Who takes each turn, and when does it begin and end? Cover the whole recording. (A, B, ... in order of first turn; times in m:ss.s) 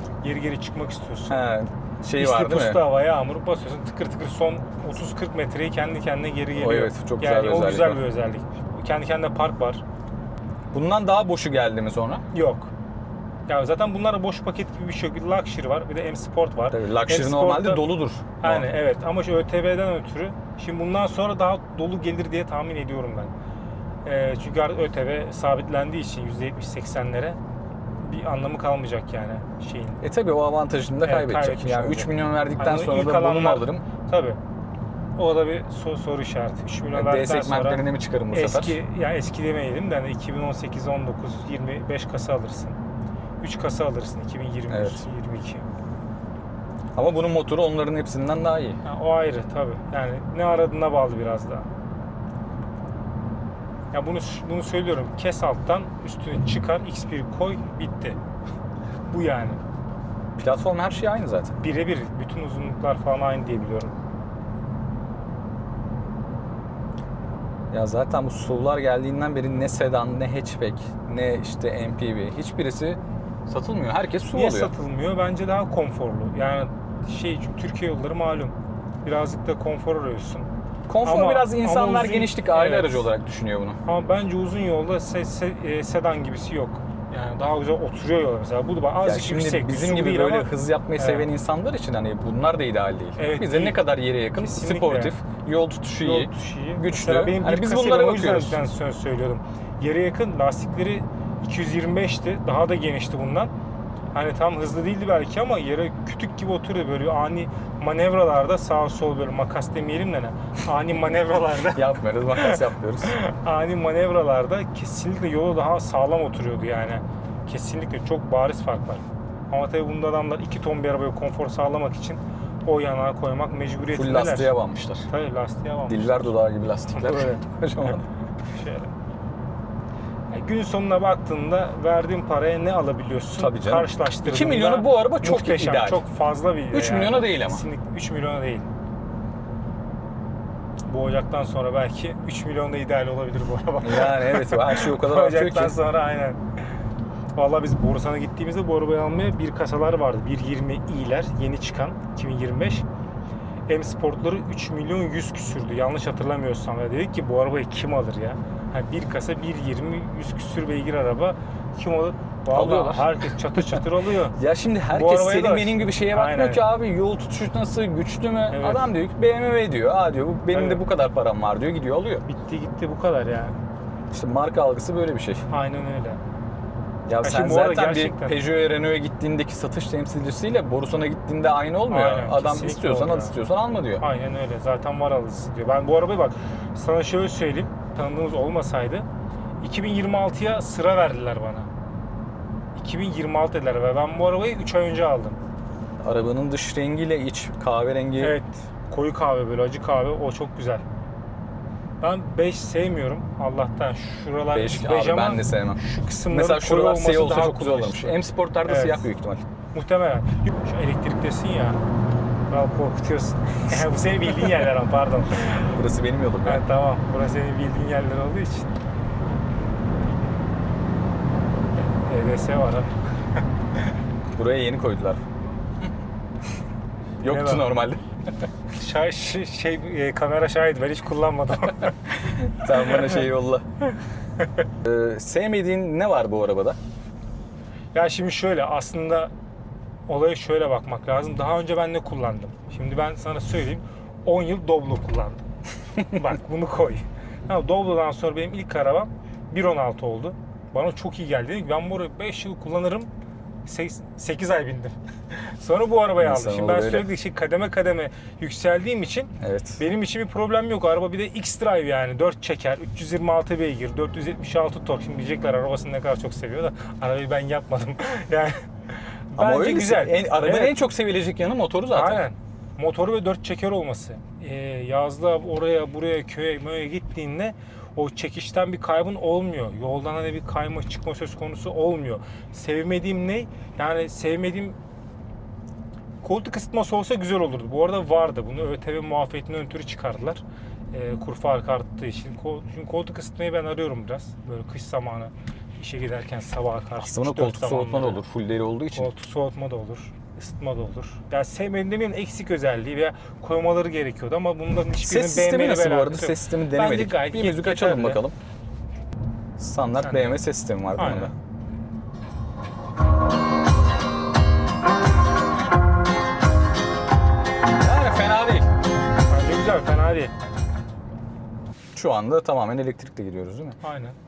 0:00.2-0:01.4 A
0:01.3-0:02.8 B
0:02.1-0:09.8 A
0:06.5-0:08.0 B
0:10.7-0:12.2 B
0:12.3-0:12.7 A
0:13.5-0:23.3 A
0:16.7-0:18.7 B
0:24.0-0:27.4 A
0:28.0-0:30.0 A
0:30.0-0:33.8 B
0:31.0-0:34.4 A
0:35.2-0:42.8 A
0:36.9-0:38.8 B
0:43.4-0:45.7 A
0:44.7-0:45.0 B
0:46.9-0:48.8 B
0:48.8-0:51.7 A
0:53.9-0:58.2 A
0:59.1-0:59.6 A
1:00.4-1:01.5 B
1:01.6-1:03.9 A
1:07.7-1:14.7 B
1:14.3-1:20.5 A
1:20.9-1:23.8 B
1:21.0-1:23.1 A
1:23.8-1:31.3 A
1:29.0-1:38.6 B
1:33.2-1:33.8 A
1:34.4-1:35.2 A
1:36.0-1:43.5 A
1:44.1-2:04.5 A
1:51.7-1:53.2 B
2:03.9-2:05.1 B
2:05.1-2:06.4 A
2:05.9-2:08.1 B
2:06.9-2:07.4 A
2:08.4-2:08.9 A
2:10.3-2:18.7 A
2:13.4-2:16.0 B
2:16.7-2:17.6 B
2:20.8-2:26.4 A
2:23.8-2:25.8 B
2:27.4-2:32.8 A
2:33.7-2:44.4 A
2:42.5-2:43.8 B
2:44.4-2:52.2 B
2:44.9-2:46.6 A
2:48.5-2:48.8 A
2:50.5-2:50.8 A
2:52.2-2:53.6 A
2:54.1-2:55.4 B
2:55.5-2:56.2 A
2:57.1-3:04.0 B
2:57.2-2:58.4 A
3:01.9-3:03.4 A
3:04.0-3:09.1 A
3:09.6-3:11.7 A
3:12.8-3:15.4 A
3:16.0-3:18.4 B
3:18.2-3:20.8 A
3:22.0-3:29.1 A
3:24.5-3:29.5 B
3:29.7-3:31.8 A
3:32.5-3:35.8 A
3:35.8-3:36.6 B
3:36.4-3:38.7 A
3:41.8-3:43.4 A
3:44.4-3:45.2 B
3:47.2-3:48.0 B
3:47.2-3:47.7 A
3:48.7-3:52.0 A
3:52.1-3:53.6 B
3:52.8-3:53.3 A
3:54.8-3:56.8 B
3:57.9-3:59.3 A
4:00.1-4:05.4 A
4:06.0-4:13.1 A
4:13.6-4:30.8 A
4:16.2-4:17.1 B
4:19.4-4:19.8 B
4:29.4-4:32.2 B
4:31.9-4:44.8 A
4:46.2-4:58.2 A
4:57.0-4:59.1 B
4:58.9-5:08.2 A
5:05.0-5:08.4 B
5:09.6-5:11.3 B
5:10.0-5:10.4 A
5:11.0-5:11.3 A
5:17.8-5:18.7 B
5:19.3-5:20.3 A
5:21.9-5:23.8 B
5:23.8-5:24.2 A